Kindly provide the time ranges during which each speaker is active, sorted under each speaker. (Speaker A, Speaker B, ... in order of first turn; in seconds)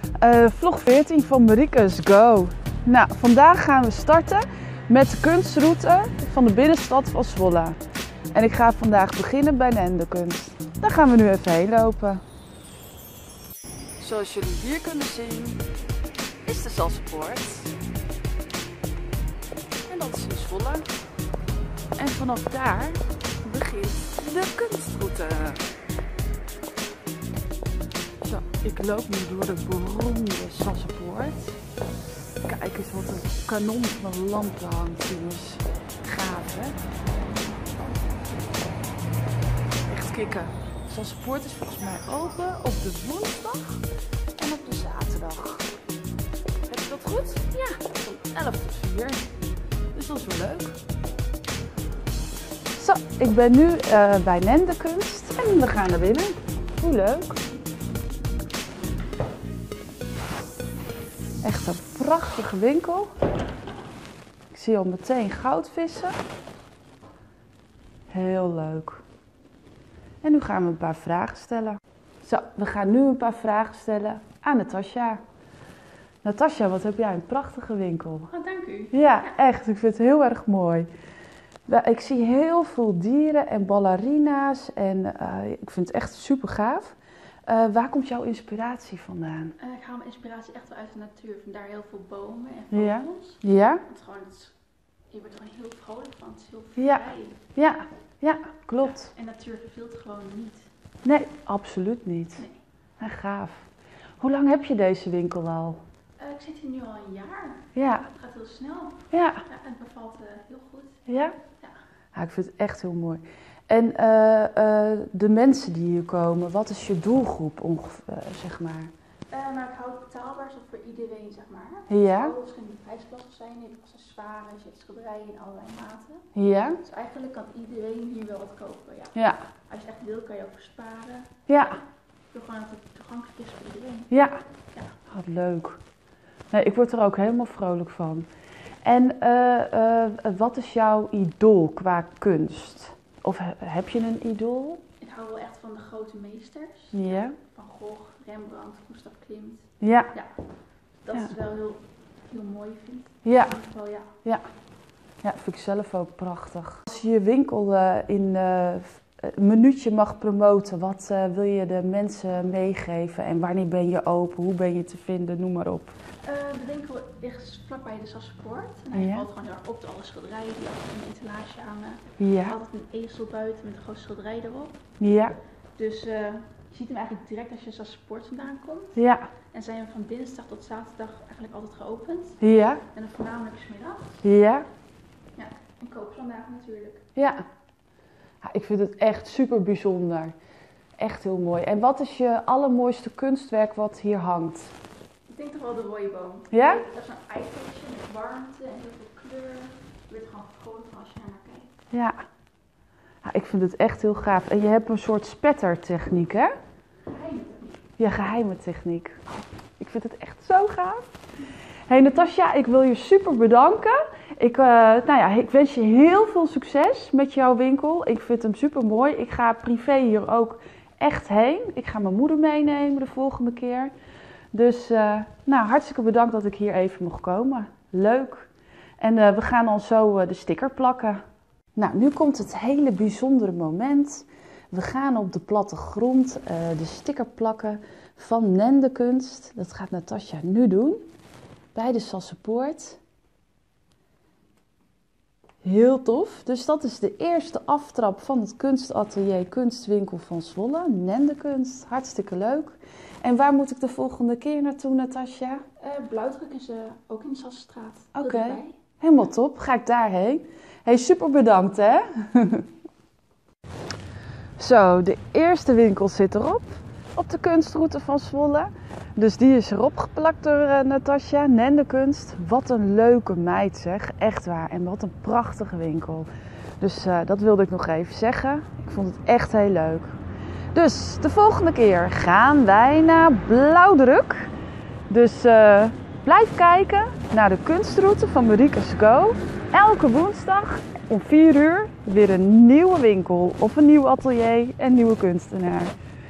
Speaker A: 0.2-7.8, 8.3-12.2, 14.0-15.6, 16.4-17.7, 19.9-20.9, 22.0-25.6, 28.2-31.6, 32.4-36.8, 39.9-43.8, 44.4-45.6, 46.7-49.2, 49.9-50.8, 52.8-57.4, 61.4-63.1, 64.5-66.2, 68.1-69.0, 70.2-75.2, 76.2-78.3, 78.9-80.9, 81.7-86.9, 87.5-89.5, 92.7-93.8, 96.8-99.1, 101.0-102.4, 103.0-103.7, 104.2-105.8, 107.7-108.1, 109.1-109.4, 111.1-111.4, 112.1-118.9, 121.9-122.3, 126.3-126.8, 129.1-129.4, 131.5-131.8, 134.1-134.4, 135.1-135.8, 136.5-138.3, 138.8-144.8, 146.9-147.3, 149.8-150.1, 153.2-153.6, 155.2-165.9, 168.9-169.2, 172.2-172.6, 175.0-175.4, 178.9-179.3, 182.4-182.8, 184.2-184.7, 187.1-187.4, 188.4-190.3, 191.0-194.7, 196.5-196.8, 201.9-202.2, 203.2-206.5, 208.0-211.1, 211.9-223.9, 224.5-231.2, 231.7-241.0, 241.7-243.0, 245.6-255.6, 258.1-262.7, 264.6-276.3, 276.8-280.2, 280.7-284.5, 285.1-295.9
Speaker B: 37.3-38.2, 78.3-79.3, 89.6-94.5, 95.1-97.4, 98.9-100.7, 106.2-111.0, 119.3-126.3, 126.8-129.2, 129.7-131.7, 132.3-134.1, 145.0-150.3, 151.0-154.2, 166.2-174.8, 175.8-179.0, 179.5-182.4, 182.9-184.2, 185.3-187.0, 195.3-201.7, 207.0-207.9, 255.8-258.8